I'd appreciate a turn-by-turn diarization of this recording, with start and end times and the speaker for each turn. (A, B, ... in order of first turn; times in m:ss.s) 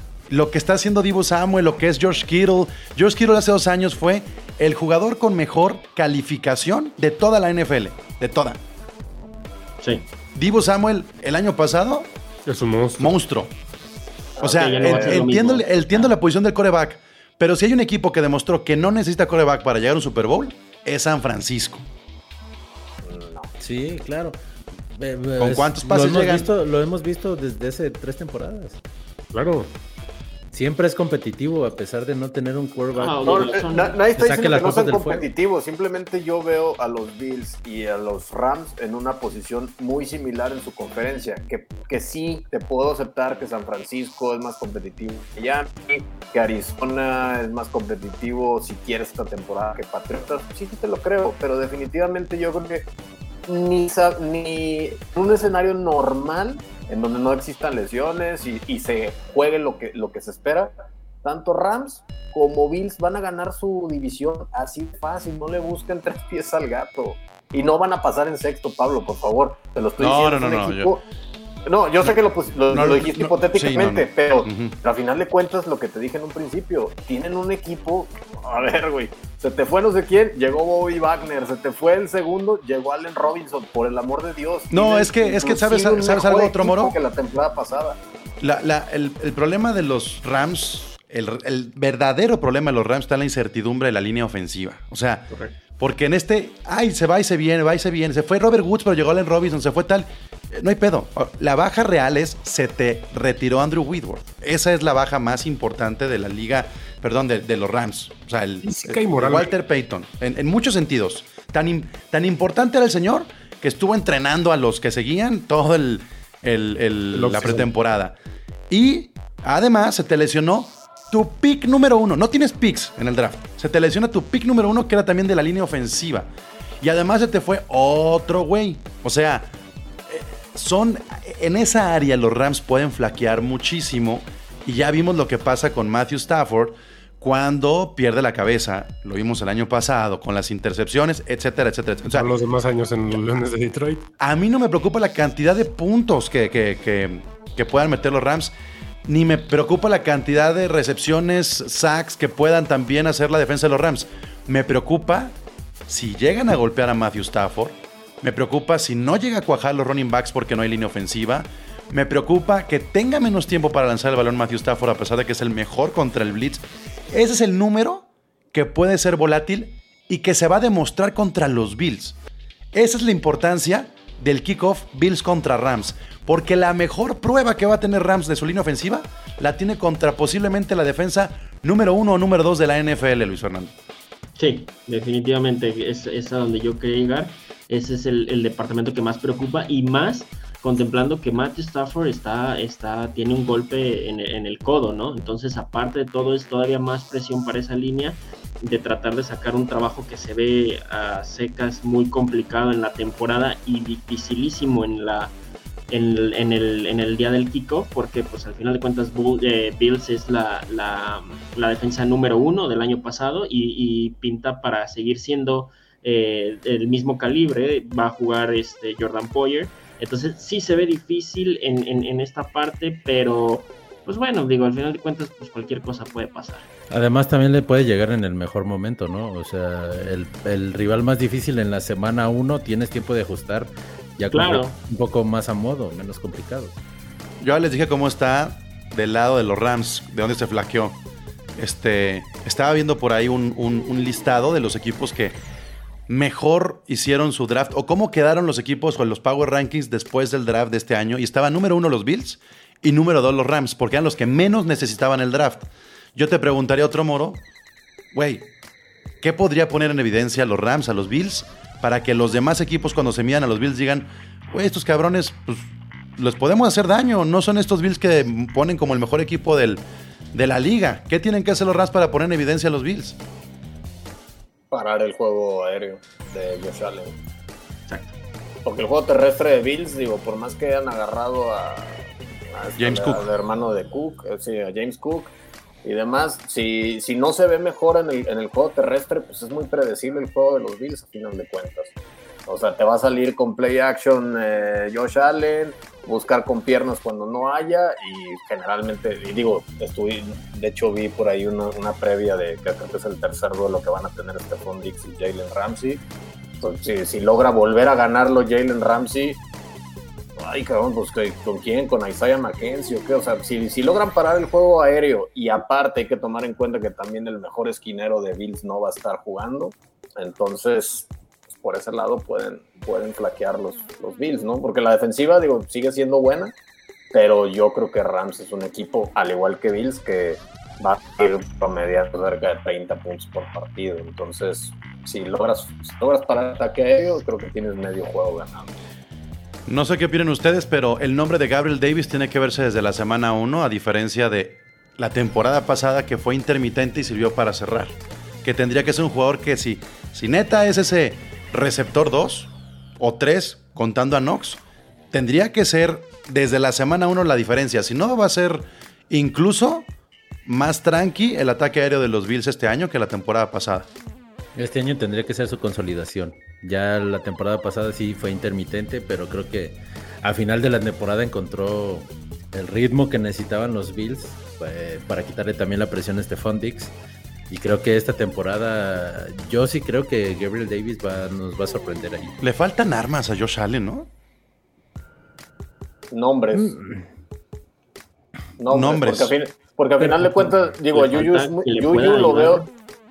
0:00.3-0:08.6 A
0:10.3-0:12.1 A
0:12.4-0:13.1 B
0:13.0-0:13.5 A
0:14.4-0:15.2 C
0:14.4-0:21.8 A
0:14.4-0:16.1 D
0:23.0-0:23.5 C
0:23.6-0:24.4 E
0:24.9-0:28.8 E
0:25.4-0:26.5 A
0:29.3-0:29.7 B
0:30.5-0:35.2 E
0:32.9-0:34.0 D
0:33.2-0:52.8 C
0:53.4-1:11.0 C
1:10.0-1:10.9 A
1:11.6-1:28.0 C
1:12.7-1:14.8 A
1:24.7-1:27.0 A
1:28.4-1:58.1 A
1:48.6-1:49.5 B
1:57.1-1:57.7 B
1:58.7-2:06.3 A
2:06.8-2:09.5 A
2:10.1-2:22.3 A
2:22.0-2:24.1 B
2:24.2-2:28.5 A
2:29.0-2:35.3 A
2:35.9-2:52.2 A
2:52.7-3:03.7 A
3:04.4-3:25.3 D
3:25.9-3:46.7 D
3:46.9-3:56.8 E
3:54.3-3:54.8 D
3:57.4-4:01.0 A
4:01.6-4:05.4 A
4:06.1-4:17.4 A
4:18.1-4:18.5 A
4:19.2-4:33.2 A
4:34.7-4:37.1 C
4:37.9-4:38.1 D
4:38.6-4:51.9 C
4:42.8-4:43.3 A
4:52.4-5:06.0 C
5:06.6-5:09.4 C
5:10.4-5:26.5 C
5:27.1-5:38.7 C
5:39.7-5:54.6 A
5:55.1-5:59.9 A
6:00.4-6:03.9 A
6:04.5-6:16.9 E
6:17.5-6:22.4 E
6:22.4-6:24.1 A
6:26.1-6:26.8 C
6:26.6-6:27.0 E
6:28.6-6:32.6 C
6:28.7-6:29.3 A
6:30.9-6:32.7 D